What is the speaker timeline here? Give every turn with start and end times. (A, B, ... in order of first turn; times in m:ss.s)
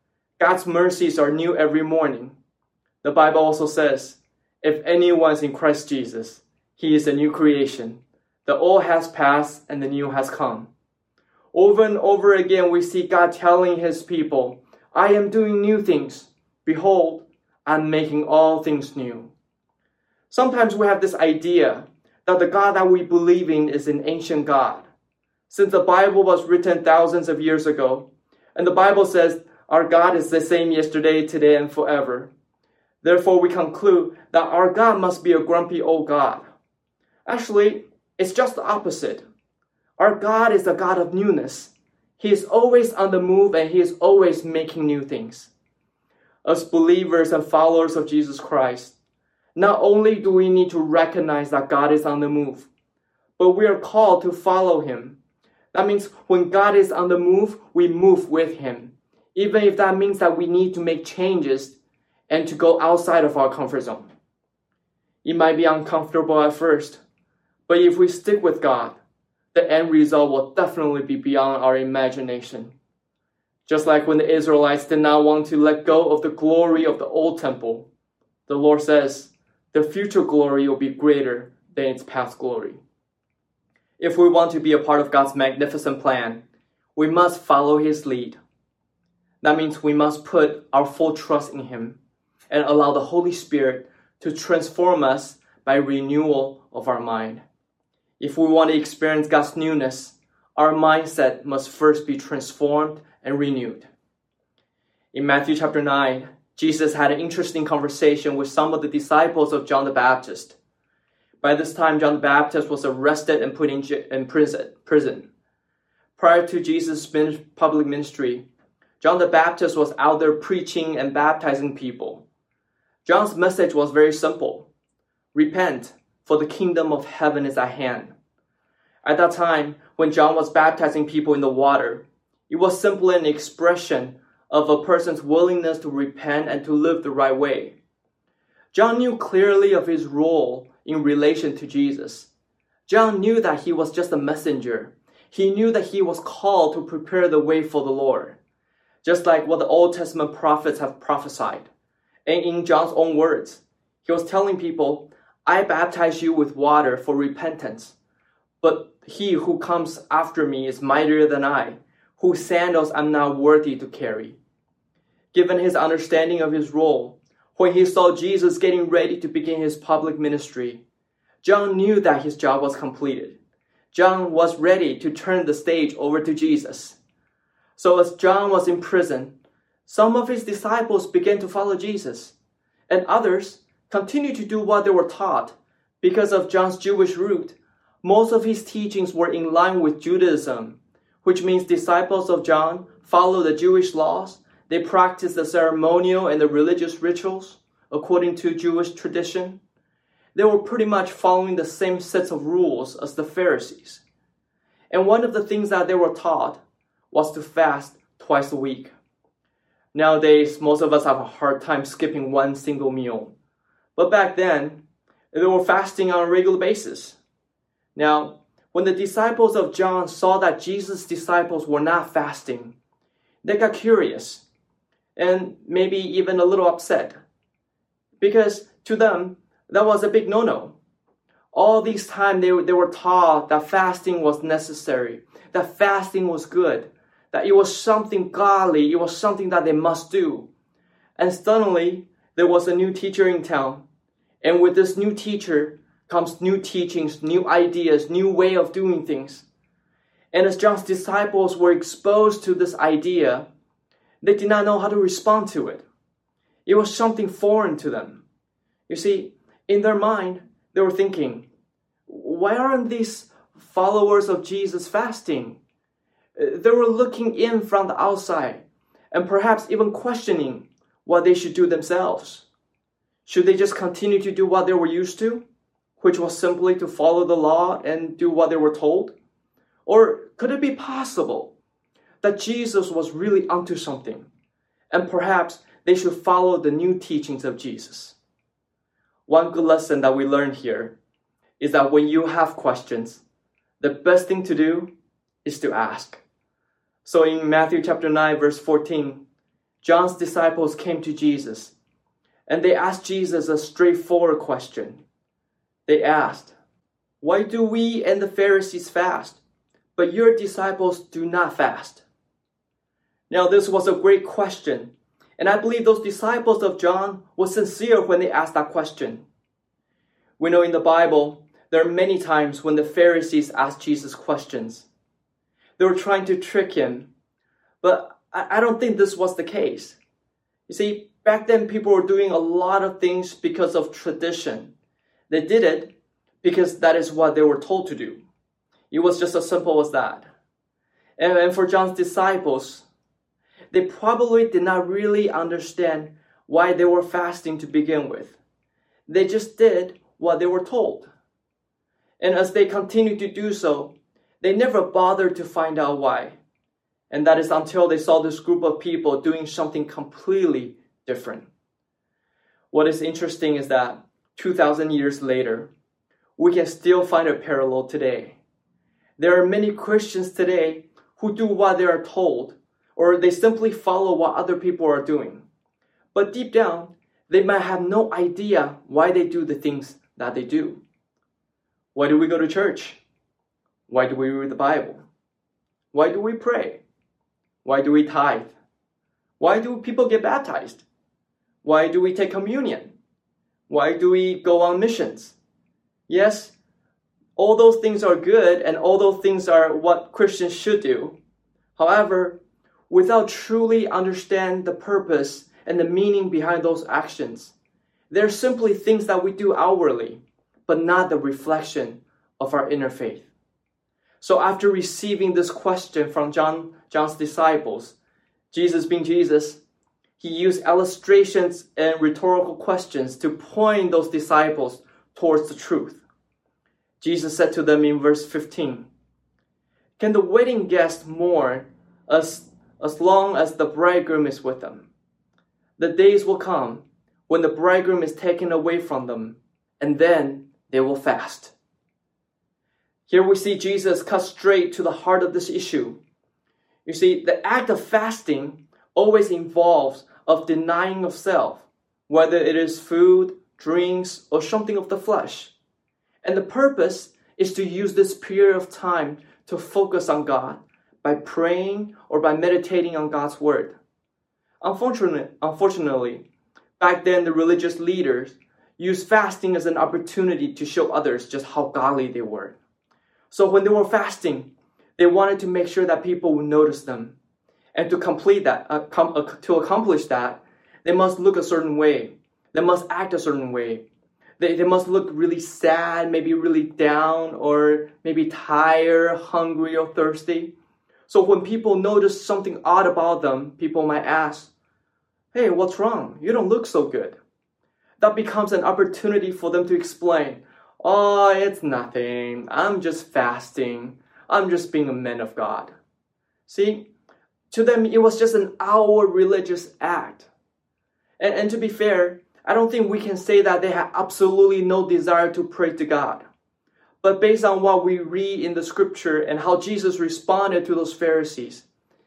0:00.4-0:02.4 A
0:03.0-0:10.7 A
0:11.5-0:19.3 A
0:20.3-0:24.9 A
0:25.5-0:32.3 A
0:33.0-0:36.4 A
0:37.3-0:39.2 A
0:40.0-0:45.5 A
0:46.4-0:49.0 A
0:49.6-0:52.7 A
0:53.4-0:55.2 A
0:55.7-1:01.8 A
1:02.3-1:04.1 A
1:05.2-1:07.0 A
1:07.7-1:09.0 A
1:09.5-1:12.7 A
1:13.7-1:17.9 A
1:18.5-1:22.8 A
1:24.0-1:26.4 A
1:27.0-1:28.4 A
1:29.4-1:32.0 A
1:32.5-1:37.4 A
1:38.2-1:43.9 A
1:45.1-1:50.6 A
1:51.4-1:55.3 A
1:56.2-1:58.4 A
1:59.0-2:02.2 A
2:03.0-2:04.7 A
2:05.3-2:08.1 A
2:09.0-2:17.8 A
2:18.7-2:22.3 A
2:22.9-2:28.4 A
2:29.0-2:31.7 A
2:32.3-2:38.0 A
2:38.6-2:44.4 A
2:45.3-2:50.8 A
2:51.4-2:53.4 A
2:53.9-2:57.0 A
2:57.8-2:59.3 A
2:59.8-3:02.3 A
3:02.9-3:19.6 A
3:20.3-3:24.0 A
3:24.9-3:28.9 A
3:29.9-3:33.3 A
3:34.0-3:34.8 A
3:35.3-3:37.2 A
3:38.0-3:42.8 A
3:43.4-3:44.4 A
3:45.2-3:47.2 A
3:48.2-3:50.8 A
3:51.5-4:00.5 A
4:01.2-4:03.8 A
4:04.4-4:09.5 A
4:10.3-4:13.5 A
4:14.2-4:15.8 A
4:16.6-4:18.2 A
4:18.9-4:21.5 A
4:22.1-4:25.6 A
4:26.4-4:32.4 A
4:33.2-4:35.4 A
4:36.0-4:39.1 A
4:39.9-4:41.5 A
4:42.2-4:44.3 A
4:44.9-4:48.2 A
4:49.3-4:50.9 A
4:51.6-4:53.2 A
4:53.8-4:54.9 A
4:55.4-4:56.2 A
4:57.0-4:59.2 A
4:59.8-5:01.7 A
5:02.5-5:05.0 A
5:05.9-5:06.5 A
5:07.2-5:09.4 A
5:10.0-5:12.0 A
5:13.3-5:19.2 A
5:20.4-5:24.9 A
5:25.8-5:27.1 A
5:27.8-5:30.0 A
5:30.7-5:34.7 A
5:35.3-5:38.2 A
5:38.9-5:40.3 A
5:41.2-5:42.8 A
5:43.7-5:48.4 A
5:49.1-5:51.1 A
5:52.2-5:56.4 A
5:57.1-6:01.5 A
6:02.7-6:05.7 A
6:06.4-6:08.4 A
6:09.2-6:15.4 A
6:16.1-6:20.8 A
6:21.9-6:23.0 A
6:23.9-6:25.0 A
6:25.9-6:26.8 A
6:27.6-6:28.5 A
6:29.4-6:30.8 A
6:31.6-6:32.9 A
6:33.7-6:35.4 A
6:36.1-6:36.5 A
6:37.4-6:41.1 A
6:41.8-6:42.4 A
6:42.9-6:47.5 A
6:48.1-6:53.3 A
6:54.2-6:57.9 A
6:58.5-6:59.6 A
7:00.2-7:06.0 A
7:07.0-7:08.9 A
7:10.0-7:14.9 A
7:15.8-7:21.5 A
7:23.1-7:26.0 A
7:26.9-7:35.5 A
7:36.2-7:43.7 A
7:44.6-7:46.2 A
7:46.8-7:52.6 A
7:53.3-7:57.1 A
7:57.8-8:03.8 A
8:04.4-8:10.5 A
8:11.1-8:14.5 A
8:15.3-8:17.2 A
8:18.0-8:25.7 A
8:26.5-8:26.9 A
8:27.5-8:30.3 A
8:31.2-8:36.2 A
8:37.0-8:41.6 A